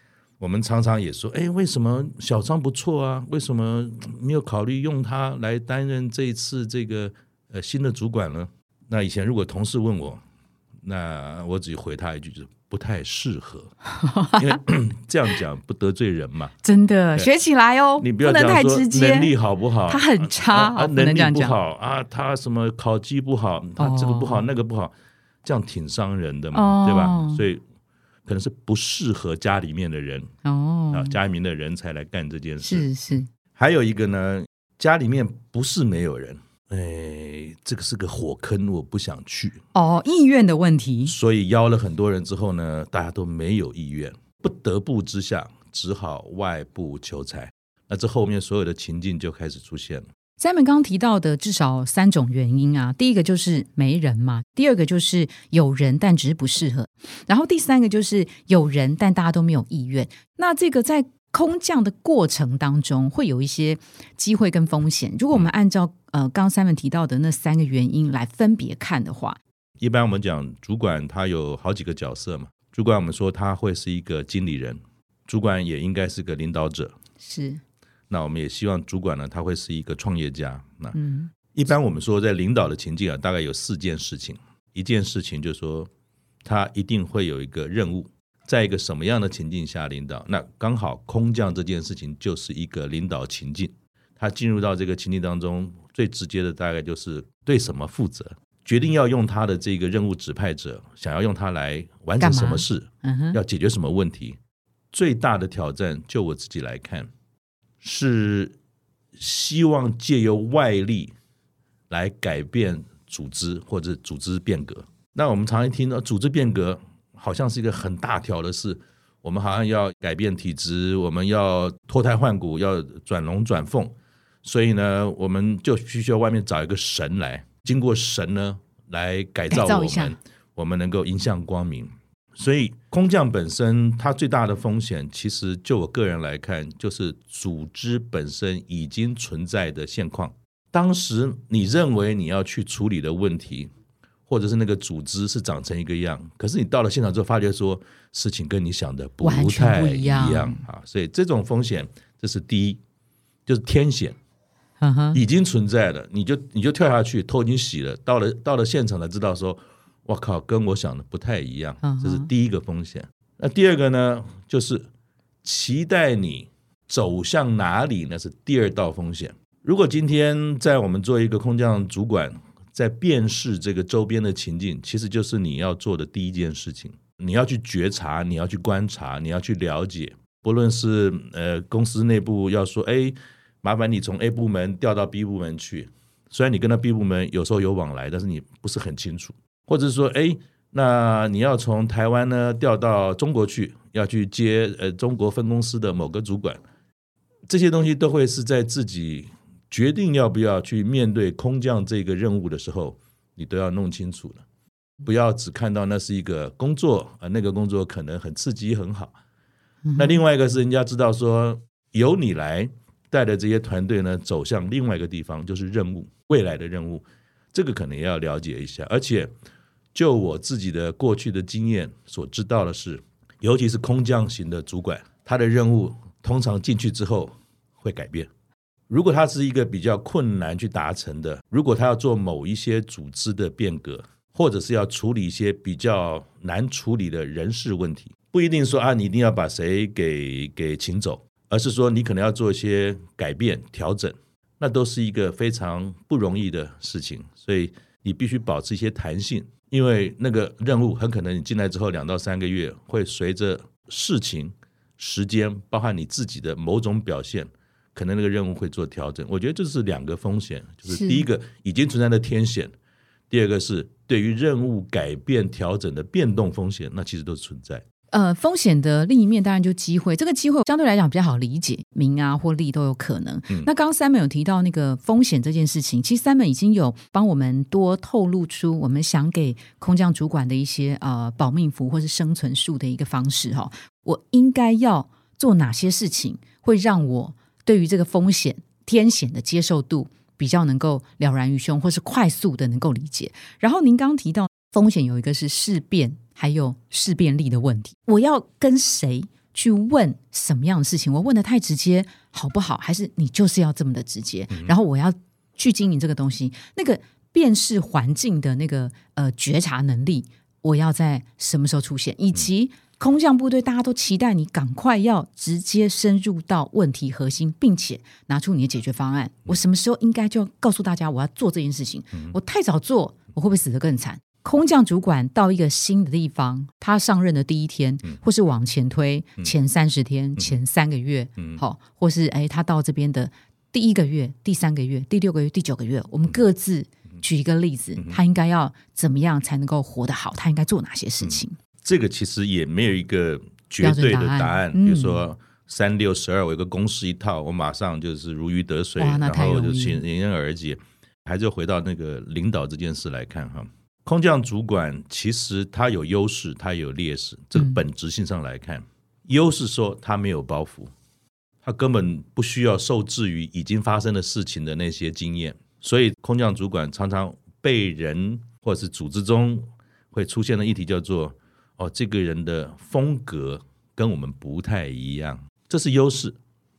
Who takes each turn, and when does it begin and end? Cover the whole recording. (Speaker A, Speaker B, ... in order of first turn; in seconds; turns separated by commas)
Speaker A: 0.4-10.2, Speaker A: 10.8-13.7, Speaker B: 13.9-14.6, Speaker A: 14.4-16.5, Speaker B: 16.6-19.3, Speaker A: 18.0-24.9, Speaker B: 19.9-21.6, Speaker B: 23.8-24.5, Speaker A: 25.4-27.6, Speaker B: 26.5-27.4, Speaker A: 28.3-30.3, Speaker B: 30.4-31.2, Speaker A: 30.9-32.9, Speaker B: 32.6-33.3, Speaker A: 33.5-39.6, Speaker B: 39.7-41.1, Speaker A: 41.1-50.1, Speaker B: 50.4-69.4, Speaker A: 69.8-77.0, Speaker B: 77.2-77.6, Speaker A: 78.1-81.0, Speaker B: 81.0-81.3, Speaker A: 81.5-85.9, Speaker A: 86.4-104.4, Speaker B: 102.2-103.4, Speaker A: 104.9-107.1, Speaker A: 107.8-108.6, Speaker A: 109.2-111.1, Speaker A: 111.9-143.7, Speaker B: 129.5-130.2, Speaker A: 144.3-152.8, Speaker B: 149.2-150.6, Speaker A: 153.5-154.2, Speaker B: 154.8-155.2, Speaker A: 155.1-164.9, Speaker B: 161.8-162.3, Speaker A: 165.4-196.6, Speaker A: 197.5-204.4, Speaker A: 205.0-209.2, Speaker B: 209.9-210.2, Speaker A: 209.9-219.3, Speaker A: 219.9-228.3, Speaker A: 228.9-262.7, Speaker B: 260.9-261.3, Speaker A: 263.3-267.9, Speaker B: 268.1-341.6, Speaker A: 304.5-304.8, Speaker A: 341.2-360.9, Speaker B: 343.8-345.2, Speaker B: 349.0-350.0, Speaker A: 361.6-376.4